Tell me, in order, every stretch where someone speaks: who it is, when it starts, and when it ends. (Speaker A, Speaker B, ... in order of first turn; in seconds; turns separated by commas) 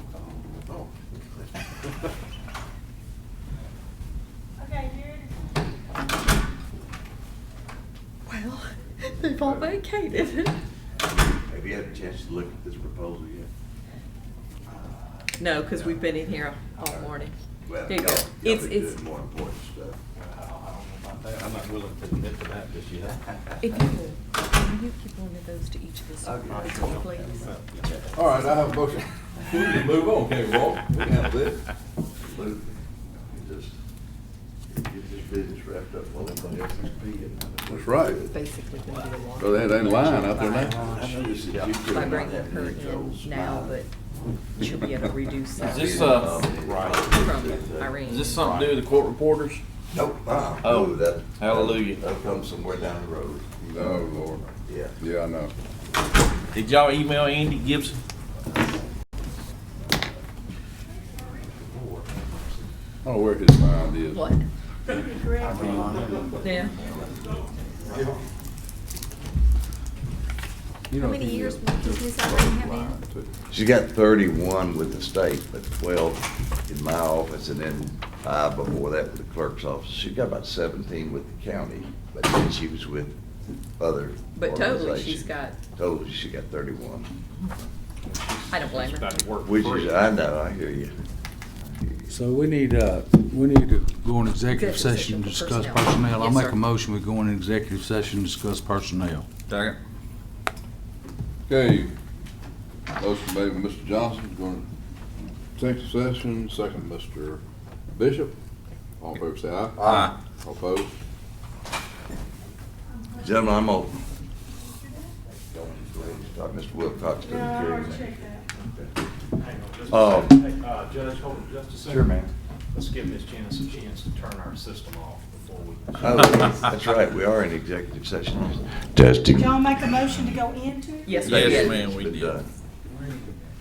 Speaker A: 0.6-1.6, Speaker B: 4.6-5.3, Speaker C: 8.3-10.5, Speaker A: 11.0-13.5, Speaker A: 14.7-16.2, Speaker C: 15.4-17.3, Speaker A: 16.8-20.0, Speaker C: 17.9-19.0, Speaker D: 20.1-21.8, Speaker E: 21.2-23.2, Speaker C: 23.6-27.5, Speaker A: 26.2-27.0, Speaker E: 26.7-27.8, Speaker F: 28.1-31.6, Speaker A: 32.2-33.7, Speaker A: 34.7-38.4, Speaker F: 37.7-38.2, Speaker C: 38.3-41.0, Speaker F: 39.4-40.8, Speaker A: 40.7-43.8, Speaker C: 41.8-43.9, Speaker C: 44.6-46.3, Speaker A: 45.6-48.0, Speaker G: 45.6-47.0, Speaker C: 47.1-48.4, Speaker G: 48.0-49.6, Speaker D: 48.4-48.8, Speaker A: 49.9-55.0, Speaker G: 50.6-52.0, Speaker F: 53.6-54.5, Speaker F: 55.0-55.5, Speaker G: 56.5-58.0, Speaker D: 61.1-62.7, Speaker F: 63.0-64.3, Speaker C: 64.1-64.4, Speaker D: 64.9-68.1, Speaker B: 65.1-66.2, Speaker H: 65.4-66.4, Speaker F: 65.7-66.1, Speaker C: 66.4-66.7, Speaker F: 70.9-73.4, Speaker C: 71.0-72.9, Speaker A: 73.5-83.2, Speaker A: 83.8-87.1, Speaker C: 84.3-85.5, Speaker D: 88.0-90.2, Speaker C: 88.5-89.2, Speaker A: 89.4-90.9, Speaker A: 91.6-92.1, Speaker H: 92.1-99.2, Speaker C: 94.5-96.6, Speaker G: 99.5-99.8, Speaker F: 101.5-101.9, Speaker F: 103.0-104.7, Speaker F: 105.5-107.4, Speaker F: 107.9-108.3, Speaker F: 109.0-111.0, Speaker A: 109.8-110.1, Speaker A: 113.1-113.9, Speaker A: 115.5-118.9, Speaker B: 117.2-118.4, Speaker D: 119.4-122.2, Speaker A: 119.9-120.4, Speaker A: 121.8-122.3, Speaker D: 122.7-126.6, Speaker A: 126.0-130.3, Speaker B: 129.3-131.2, Speaker C: 131.1-131.8, Speaker G: 131.2-132.4, Speaker A: 131.2-132.4